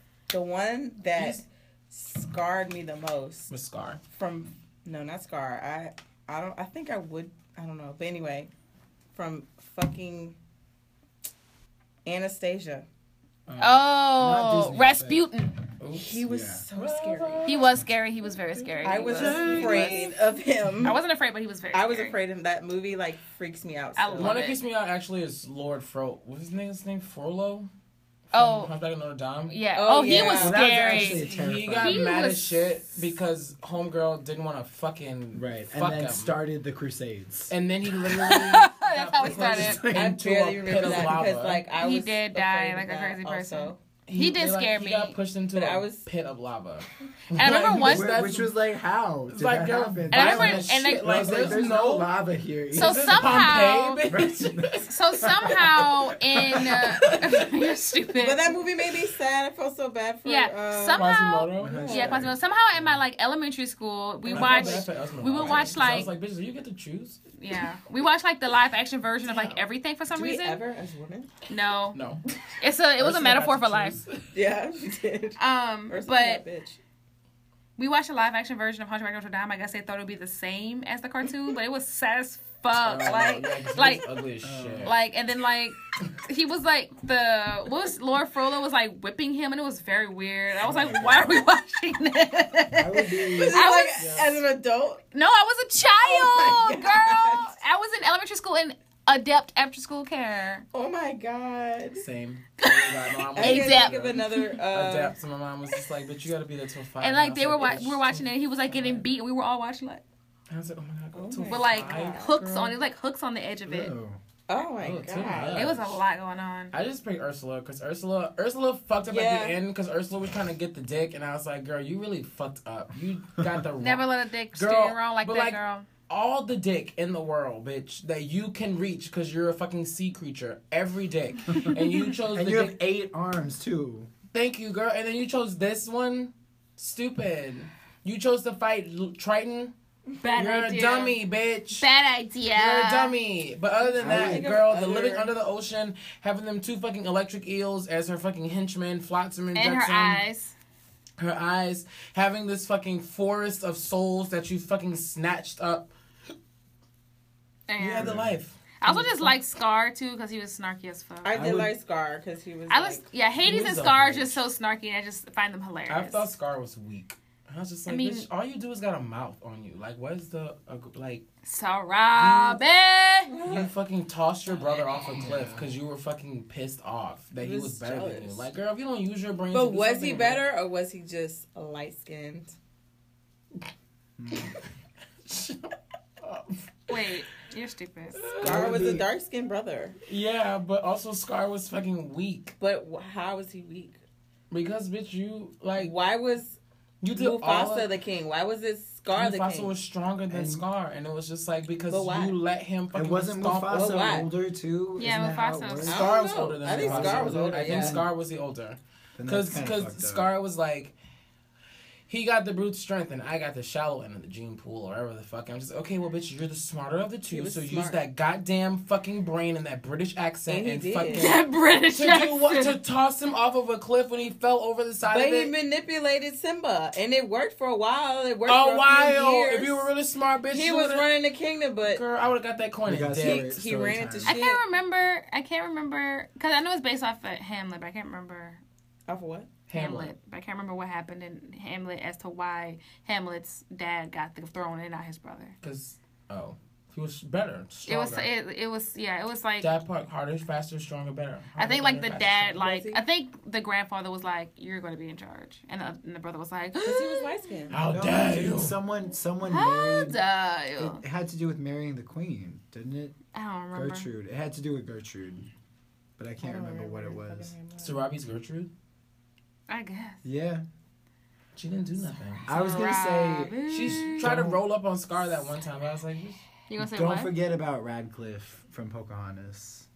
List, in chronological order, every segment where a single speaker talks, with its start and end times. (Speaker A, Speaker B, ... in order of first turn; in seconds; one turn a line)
Speaker A: 0.3-3.5
Speaker B: 1.1-1.4
Speaker B: 3.5-4.0
Speaker A: 4.1-8.5
Speaker A: 9.1-10.4
Speaker A: 12.0-12.8
Speaker B: 13.5-13.8
Speaker C: 13.6-15.6
Speaker D: 14.1-15.3
Speaker B: 15.8-16.2
Speaker A: 15.9-17.5
Speaker D: 16.2-16.6
Speaker B: 16.7-17.8
Speaker C: 17.4-19.9
Speaker B: 18.5-20.0
Speaker A: 18.8-21.0
Speaker D: 19.1-20.1
Speaker C: 20.8-22.1
Speaker A: 21.7-24.4
Speaker C: 23.9-24.6
Speaker B: 24.2-27.7
Speaker C: 28.3-28.7
Speaker B: 28.3-36.4
Speaker C: 29.5-32.7
Speaker A: 29.7-30.6
Speaker D: 30.2-32.1
Speaker D: 35.3-37.5
Speaker B: 37.5-41.6
Speaker C: 38.2-39.9
Speaker D: 39.2-40.2
Speaker A: 39.9-43.8
Speaker D: 40.8-41.2
Speaker C: 41.7-45.2
Speaker B: 44.1-48.5
Speaker A: 45.5-46.1
Speaker C: 47.3-48.2
Speaker D: 47.8-57.1
Speaker B: 49.3-52.1
Speaker C: 50.1-51.8
Speaker B: 52.7-54.8
Speaker C: 52.7-54.0
Speaker C: 54.8-58.5
Speaker B: 56.6-57.5
Speaker A: 58.2-61.1
Speaker C: 60.2-66.1
Speaker B: 60.9-62.3
Speaker D: 61.6-62.4
Speaker A: 61.8-62.2
Speaker B: 64.2-67.2
Speaker A: 64.3-64.8
Speaker A: 65.3-65.8
Speaker C: 67.3-70.6
Speaker B: 69.2-69.6
Speaker A: 70.1-71.3
Speaker C: 71.5-72.0
Speaker B: 71.9-72.2
Speaker C: 72.6-74.0
Speaker B: 73.0-74.3
Speaker A: 74.3-76.8
Speaker C: 75.4-76.4
Speaker C: 77.8-84.1
Speaker B: 82.7-85.0
Speaker D: 84.4-84.9
Speaker C: 84.8-94.0
Speaker D: 90.6-91.3
Speaker B: 90.8-91.2
Speaker D: 92.7-93.7
Speaker A: 93.2-95.0
Speaker B: 94.0-94.3
Speaker C: 95.1-100.6
Speaker A: 95.9-97.5
Speaker A: 100.7-102.0
Speaker B: 102.0-109.0
Speaker C: 102.6-104.5
Speaker A: 103.3-105.2
Speaker C: 107.0-110.0
Speaker B: 110.5-112.8
Speaker A: 111.1-112.3
Speaker C: 111.5-113.9
Speaker D: 113.7-114.2
Speaker A: 114.5-115.7
Speaker B: 114.8-116.0
Speaker C: 115.5-116.8
Speaker B: 116.7-132.8
Speaker A: 119.0-119.6
Speaker C: 123.8-125.9
Speaker D: 132.3-134.1
Speaker B: 134.3-139.7
Speaker C: 140.2-141.2
Speaker B: 140.3-141.8
Speaker C: 141.7-143.2
Speaker B: 142.5-150.2
Speaker A: 143.8-145.3
Speaker D: 144.0-144.6
Speaker C: 149.5-150.5
Speaker B: 151.2-155.9
Speaker C: 157.7-158.1
Speaker B: 157.8-159.3
Speaker D: 158.0-158.3
Speaker C: 158.8-161.3
Speaker A: 161.2-163.1
Speaker D: 161.3-161.7
Speaker C: 162.7-166.3
Speaker B: 163.4-164.5
Speaker B: 165.9-171.2
Speaker C: 167.9-168.3
Speaker C: 171.4-173.4
Speaker B: 172.1-172.6
Speaker A: 173.3-173.7
Speaker B: 173.4-180.4
Speaker A: 174.5-174.9
Speaker D: 175.1-175.7
Speaker A: 177.4-178.5
Speaker A: 179.5-182.5
Speaker D: 184.2-184.6
Speaker B: 185.3-186.5
Speaker C: 186.9-188.2
Speaker B: 188.2-188.9
Speaker D: 188.4-189.1
Speaker A: 188.4-190.0
Speaker B: 190.1-192.5
Speaker A: 192.6-194.0
Speaker B: 194.5-195.9
Speaker A: 195.8-196.6
Speaker B: 197.0-197.9
Speaker A: 197.1-199.8
Speaker B: 199.1-204.2
Speaker D: 200.3-200.7
Speaker A: 201.9-202.4
Speaker D: 202.9-206.1
Speaker A: 203.7-204.3
Speaker C: 205.0-205.9
Speaker B: 205.8-210.9
Speaker A: 205.8-208.0
Speaker D: 206.6-208.1
Speaker D: 209.2-210.3
Speaker B: 212.1-225.5
Speaker A: 217.3-218.0
Speaker A: 220.5-221.3
Speaker C: 221.1-222.8
Speaker A: 225.0-229.9
Speaker B: 228.5-231.1
Speaker A: 230.5-232.0
Speaker B: 231.8-233.5
Speaker D: 232.8-234.4
Speaker A: 233.2-234.6
Speaker C: 234.3-238.6
Speaker A: 239.1-239.5
Speaker B: 239.7-240.1
Speaker C: 239.7-245.6
Speaker B: 245.6-248.3
Speaker C: 247.9-249.7
Speaker B: 249.6-252.7
Speaker C: 251.6-257.4
Speaker A: 252.6-253.0
Speaker A: 256.8-257.8
Speaker B: 257.7-258.8
Speaker D: 257.8-260.2
Speaker C: 259.4-261.0
Speaker D: 260.8-263.1
Speaker C: 263.3-264.1
Speaker D: 263.7-265.5
Speaker D: 266.2-267.5
Speaker A: 266.4-268.1
Speaker B: 267.8-268.7
Speaker C: 269.7-270.2
Speaker D: 270.2-270.6
Speaker B: 271.5-272.5
Speaker D: 272.4-274.6
Speaker C: 272.5-274.3
Speaker B: 273.7-276.4
Speaker C: 276.7-277.3
Speaker D: 276.8-279.9